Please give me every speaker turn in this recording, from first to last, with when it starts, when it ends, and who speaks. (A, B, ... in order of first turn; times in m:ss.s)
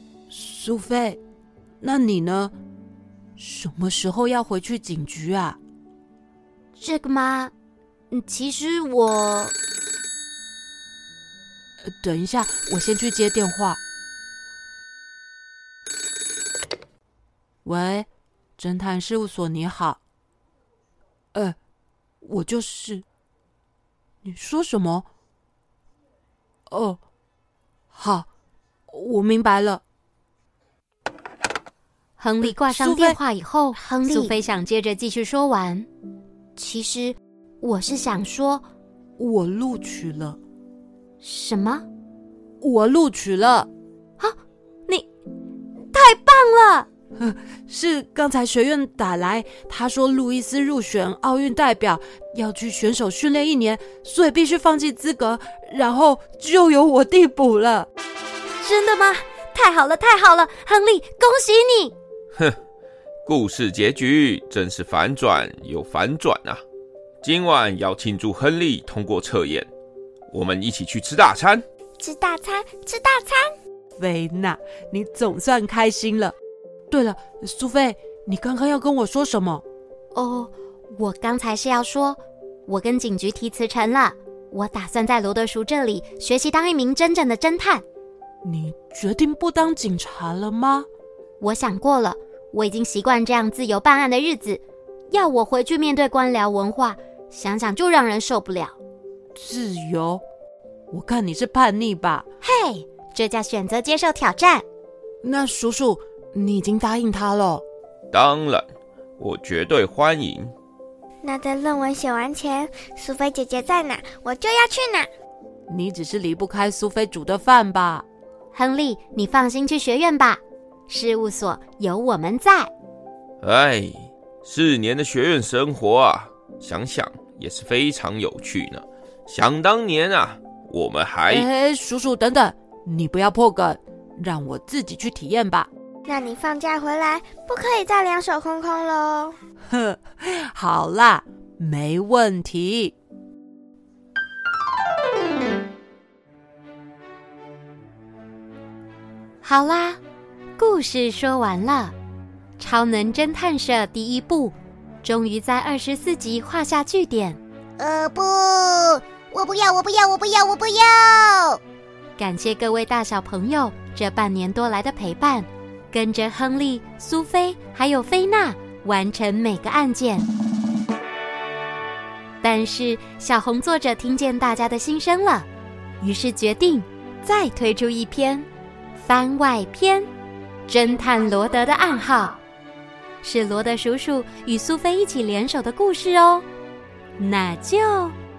0:00.3-0:01.2 A
0:01.8-0:02.5 A
0:03.4-0:05.6 A
0:06.8-0:07.5 B
0:08.1-0:09.5 B
0:11.8-0:13.8 A
0:17.6-0:18.1 A
0:18.6-0:20.0 A
0:22.2-0:23.0 A
0:24.2-0:25.0 A
0:26.7-0:27.0 A
0:27.9-0:28.3 A
0:28.9-0:29.8 A
0:32.2-0:35.9 B
0:32.4-0:33.2 A
0:34.1-0:34.3 A
0:36.6-0:38.6 B
0:39.2-0:40.4 A
0:41.2-0:41.8 B
0:42.6-0:43.7 A
0:45.9-0:46.9 B
0:47.2-0:57.9 A
0:58.6-1:01.9 B
1:03.2-1:06.6 C
1:07.2-1:09.7 C
1:10.3-1:11.6 C
1:12.0-1:13.5 D
1:14.0-1:16.3 A
1:16.9-1:19.6 A
1:20.1-1:27.8 B
1:28.4-1:30.9 A
1:31.4-1:38.8 B
1:39.3-1:40.2 A
1:40.9-1:42.2 A
1:42.4-1:44.6 B
1:45.2-1:47.6 A
1:48.1-1:48.7 C
1:49.2-1:50.5 C
1:51.2-1:55.1 D
1:55.7-1:58.0 A
1:58.5-2:02.7 B
2:03.4-2:11.5 C
2:11.3-2:15.7 A
2:16.0-2:19.4 D
2:19.7-2:22.9 A
2:29.4-2:30.0 B
2:30.6-2:31.9 B
2:32.6-2:37.4 B
2:37.8-2:41.6 E
2:42.2-2:50.3 B
2:52.4-2:55.5 B
2:56.0-3:00.1 B
3:00.7-3:02.4 B
3:03.2-3:06.4 B
3:07.2-3:08.2 B